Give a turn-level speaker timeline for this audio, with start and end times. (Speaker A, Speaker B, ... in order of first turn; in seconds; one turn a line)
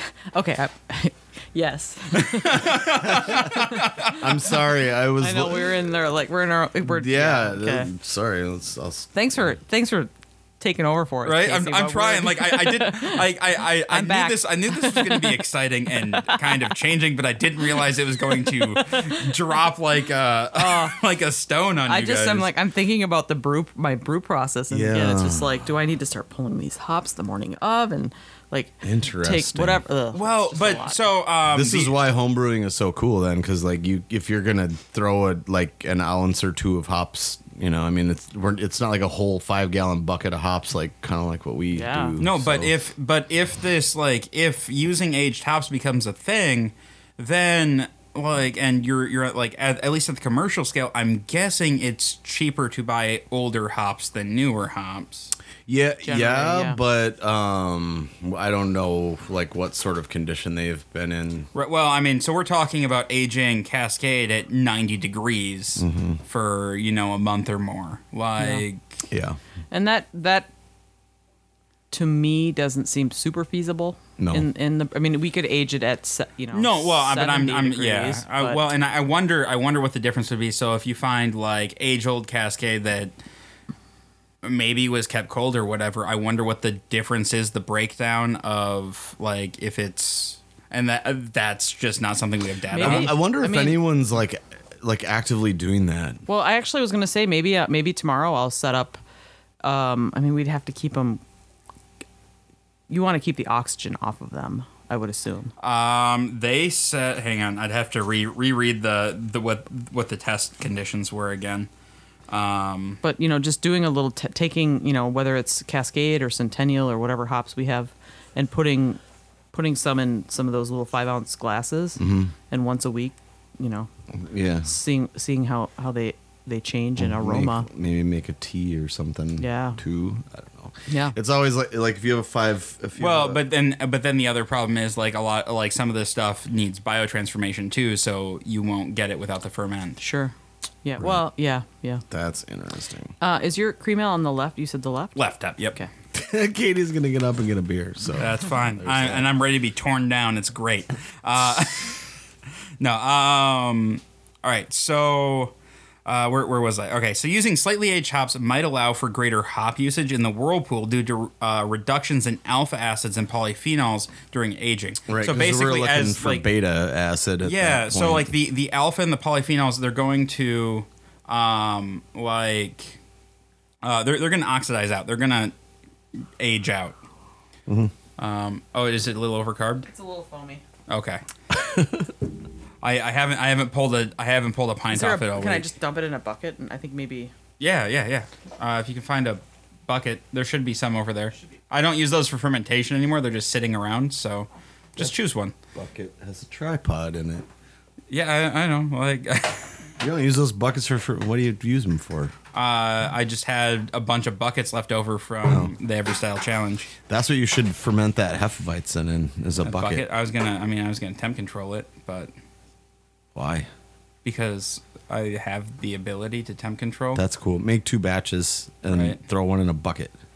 Speaker A: 0.3-4.2
Speaker B: 2.1-4.3
Speaker C: 3.0-5.8
Speaker A: 5.2-7.9
Speaker C: 6.8-9.1
Speaker A: 9.1-15.4
Speaker B: 11.2-22.5
Speaker A: 16.0-16.7
Speaker A: 17.8-19.4
Speaker A: 20.5-21.0
Speaker A: 21.9-31.0
Speaker C: 24.7-25.6
Speaker C: 28.8-29.8
Speaker B: 30.1-31.9
Speaker C: 31.4-42.7
Speaker A: 41.7-42.2
Speaker B: 42.2-55.3
Speaker C: 55.7-61.5
Speaker A: 56.0-56.8
Speaker B: 61.5-69.0
Speaker C: 65.8-66.2
Speaker A: 68.4-68.6
Speaker C: 69.1-69.4
Speaker A: 69.7-70.5
Speaker A: 71.9-78.6
Speaker C: 74.2-74.5
Speaker B: 76.5-83.1
Speaker B: 84.4-93.1
Speaker A: 92.7-93.8
Speaker C: 92.8-96.2
Speaker A: 96.3-99.0
Speaker A: 99.6-101.2
Speaker A: 102.9-105.5
Speaker B: 105.6-111.7
Speaker B: 112.3-113.0
Speaker A: 113.0-119.0
Speaker A: 119.5-123.9
Speaker C: 122.0-122.3
Speaker C: 124.2-124.7
Speaker A: 124.6-127.7
Speaker C: 127.0-133.4
Speaker A: 129.4-129.8
Speaker A: 130.9-131.1
Speaker B: 133.0-140.0
Speaker A: 140.0-140.3
Speaker A: 140.8-142.0
Speaker C: 141.0-141.2
Speaker C: 142.1-143.1
Speaker A: 143.2-145.2
Speaker B: 145.2-145.8
Speaker C: 146.1-149.3
Speaker B: 148.2-152.1
Speaker B: 152.8-155.5
Speaker B: 156.0-166.4
Speaker C: 165.1-168.3
Speaker B: 167.4-173.0
Speaker B: 173.8-175.5
Speaker B: 176.4-177.0
Speaker C: 177.7-177.9
Speaker B: 178.2-179.9
Speaker A: 179.8-180.6
Speaker B: 180.9-181.2
Speaker C: 181.5-182.1
Speaker B: 182.8-185.7
Speaker A: 184.9-187.3
Speaker B: 187.6-195.5
Speaker C: 195.7-197.5
Speaker B: 198.1-199.9
Speaker C: 200.0-202.3
Speaker B: 202.5-206.9
Speaker C: 205.5-205.7
Speaker C: 207.1-210.0
Speaker B: 209.6-212.3
Speaker C: 213.3-213.7
Speaker B: 214.2-217.2
Speaker C: 217.1-220.1
Speaker B: 218.9-219.2